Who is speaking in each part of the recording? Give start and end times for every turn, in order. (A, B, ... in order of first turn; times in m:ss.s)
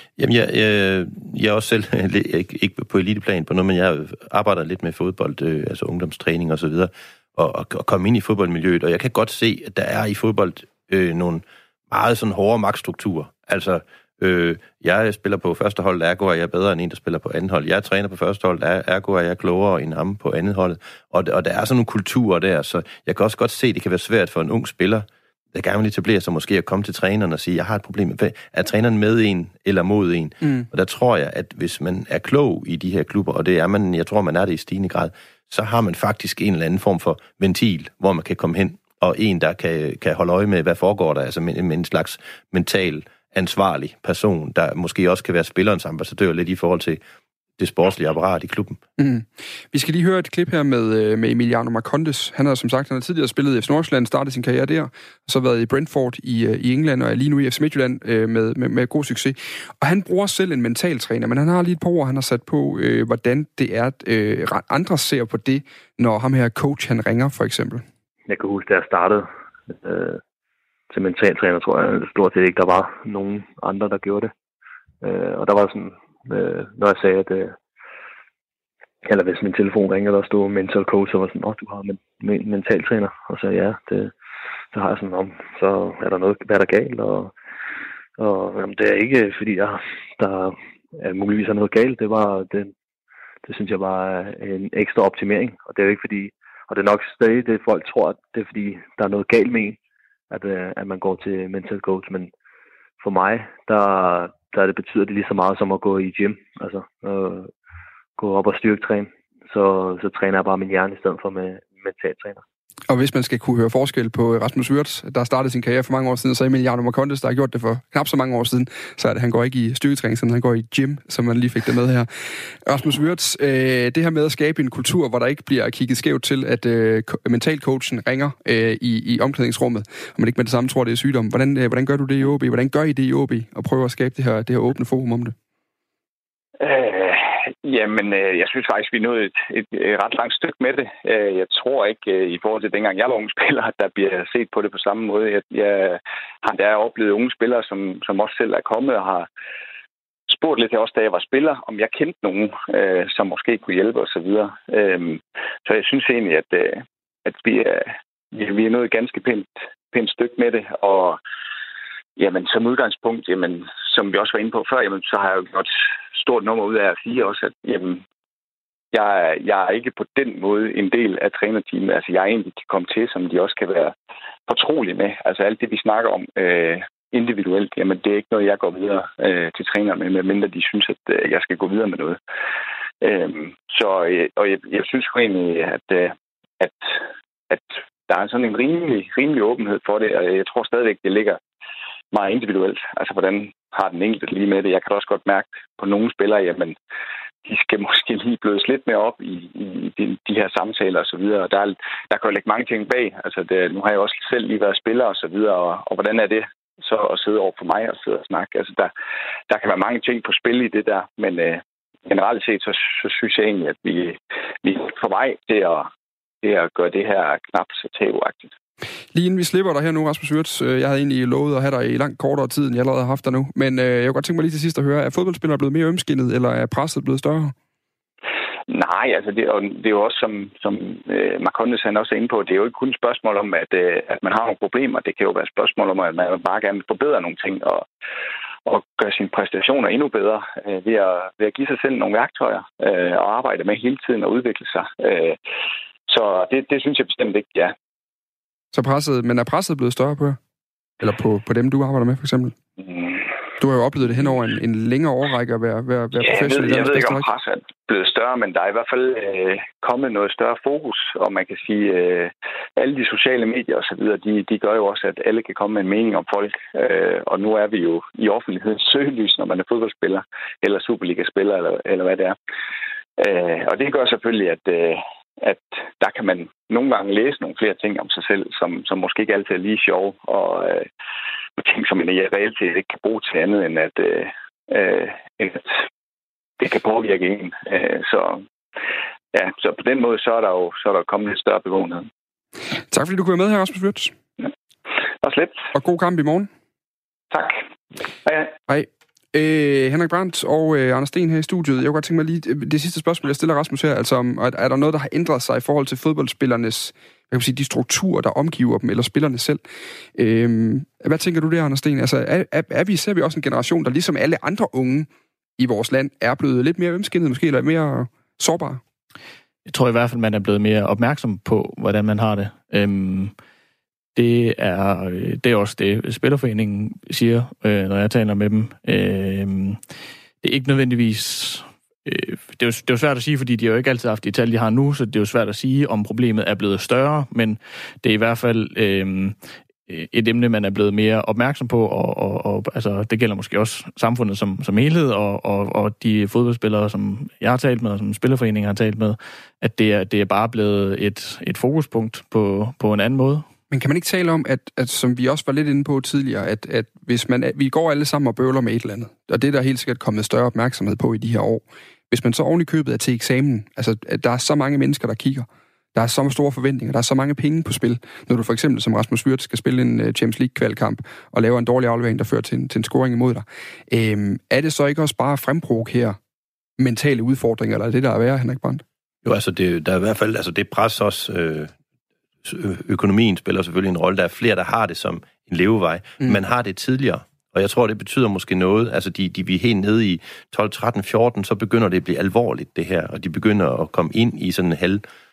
0:00.2-0:47.0 A
0:47.6-0:48.8 A
0:49.0-1:07.8 B
1:08.3-1:10.2 C
1:10.9-1:14.3 C
1:15.0-1:17.6 C
1:19.0-1:24.1 C
1:24.7-1:27.3 C
1:28.2-1:32.7 C
1:33.4-1:39.8 C
1:40.3-1:42.3 C
1:43.0-1:47.5 C
1:48.2-1:52.4 C
1:52.9-2:02.1 B
2:02.6-2:15.3 B
2:16.6-2:29.3 D
2:30.3-2:41.2 D
2:42.2-2:48.0 D
2:48.9-2:53.9 D
2:54.5-3:02.2 D
3:03.0-3:06.9 D
3:07.5-3:11.4 D
3:12.1-3:16.8 D
3:17.4-3:28.9 D
3:29.5-3:35.9 D
3:36.4-3:38.5 D
3:39.1-3:47.5 B
3:48.7-3:57.8 D
3:58.6-4:05.4 D
4:06.1-4:07.7 D
4:08.7-4:10.4 B
4:11.0-4:12.6 B
4:12.8-4:13.2 D
4:13.6-4:17.2 B
4:16.2-4:32.4 D
4:33.2-4:40.9 D
4:41.6-4:45.8 D
4:46.6-4:48.4 D
4:49.3-4:52.1 D
4:52.9-4:54.1 B
4:55.2-4:55.6 D
4:55.7-4:56.5 B
4:57.3-4:57.6 D
4:58.2-4:58.5 D
4:58.7-5:09.6 B
5:10.2-5:18.8 B
5:19.6-5:23.3 E
5:24.1-5:29.8 E
5:30.4-5:39.3 E
5:39.9-5:53.4 E
5:53.7-6:16.2 B
6:16.8-6:18.8 B
6:19.2-6:21.7 A
6:22.4-6:35.0 A